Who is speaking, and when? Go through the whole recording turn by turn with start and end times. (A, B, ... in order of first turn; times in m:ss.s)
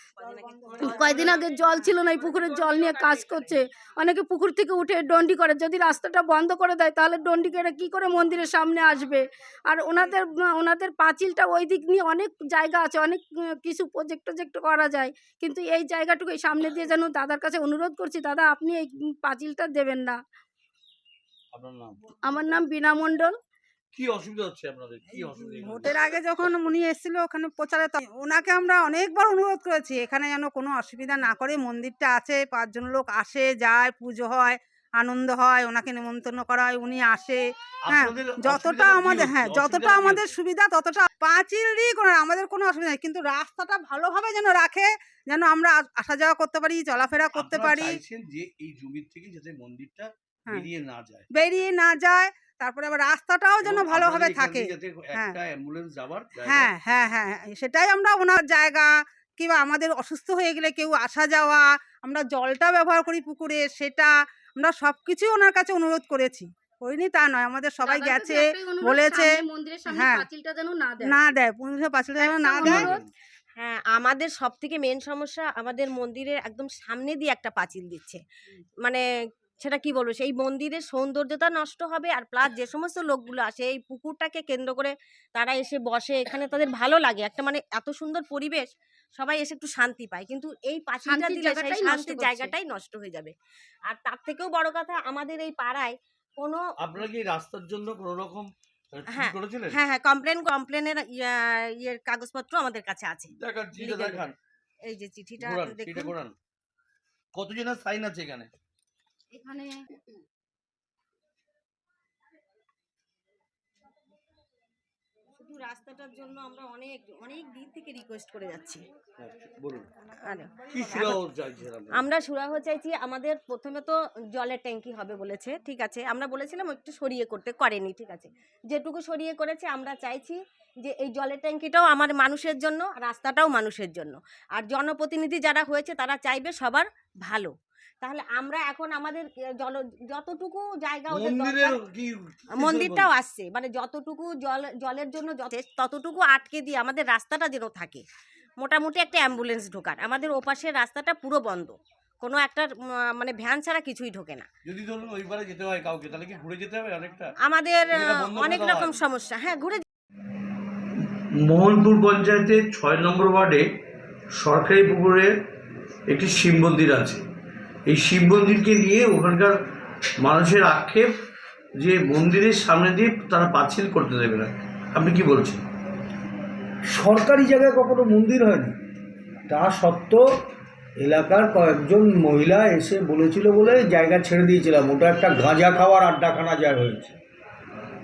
0:00.2-0:01.6 A
0:00.8-0:20.2 B
0:21.5-0:22.0 C
0:22.3-0:23.4 B
0:23.9-0:26.5 C
0:25.1-0:48.0 D
0:37.8-0:40.3 C
0:47.3-0:51.2 C
0:51.3-0:55.4 D
0:53.6-0:56.7 C
0:56.4-1:09.4 D
1:07.8-1:11.2 B
1:09.9-1:10.2 D
1:11.1-1:12.9 D
1:12.2-1:13.0 B
1:13.6-1:18.2 A
1:19.6-1:33.3 A
1:31.0-1:32.5 B
1:33.9-1:36.6 A
1:36.8-1:39.8 C
1:39.1-1:44.3 A
1:43.4-1:44.3 C
1:44.9-1:46.1 A
1:45.4-1:46.3 C
1:47.3-1:48.5 C
1:49.3-1:49.7 B
1:55.4-1:58.8 A
1:59.2-1:59.9 C
2:00.2-2:01.3 A
2:00.7-2:02.0 C
2:01.9-2:21.8 A
2:21.1-2:23.1 C
2:22.5-2:28.0 A
2:28.6-2:34.4 A
2:34.6-2:37.3 C
2:37.4-2:39.8 A
2:37.9-2:38.9 C
2:41.4-2:43.6 C
2:44.4-2:45.3 C
2:46.1-2:47.2 C
2:47.9-2:49.5 C
2:50.2-2:51.1 C
2:51.8-2:55.6 C
2:56.9-2:58.7 E
2:59.5-3:00.2 E
3:01.0-3:07.2 E